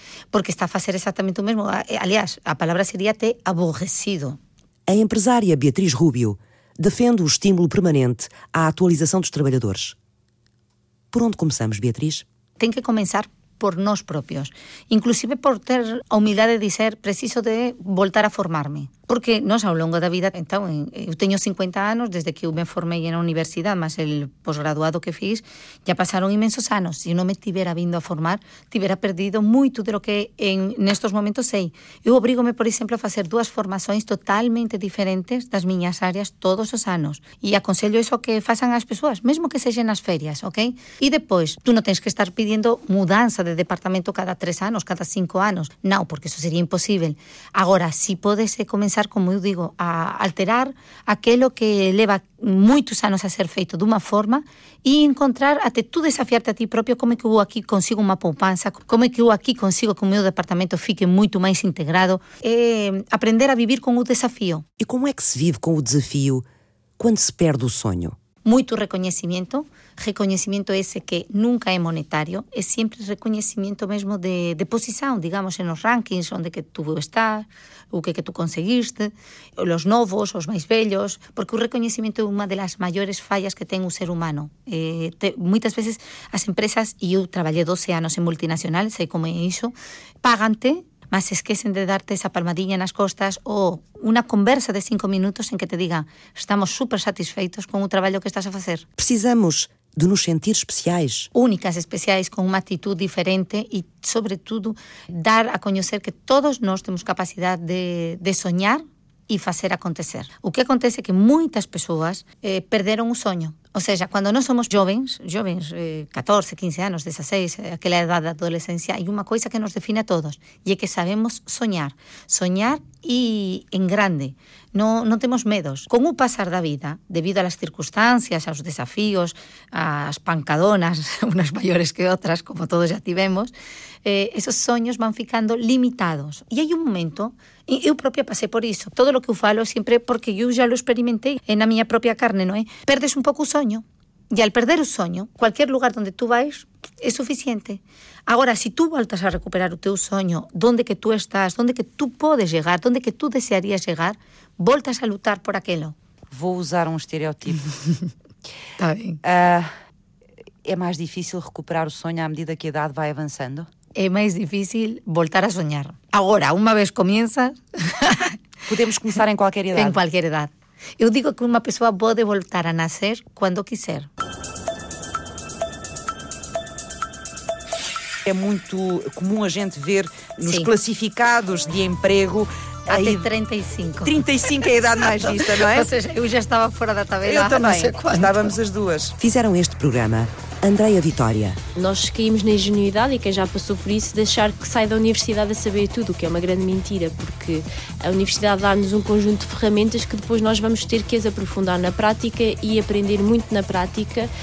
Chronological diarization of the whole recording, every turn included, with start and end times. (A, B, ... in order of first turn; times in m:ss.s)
0:00.3-0:04.4 A
0:04.9-0:10.0 B
0:11.1-0:12.2 B
0:12.6-1:04.6 A
1:04.8-1:06.4 B
1:07.0-1:08.2 B
1:08.4-1:38.8 A
1:39.0-1:41.3 B
1:41.3-2:13.5 A
2:14.0-2:36.0 A
2:36.3-2:37.7 C
2:38.8-2:39.2 A
2:39.2-2:39.7 C
2:40.6-2:43.7 C
2:44.0-2:48.4 A
2:48.7-2:50.0 C
2:49.7-2:54.1 A
2:58.3-3:03.3 C
3:02.9-3:04.2 A
3:04.0-3:05.9 C
3:05.2-3:08.5 A
3:07.2-3:09.2 C
3:09.2-3:11.6 B
3:11.8-3:24.3 D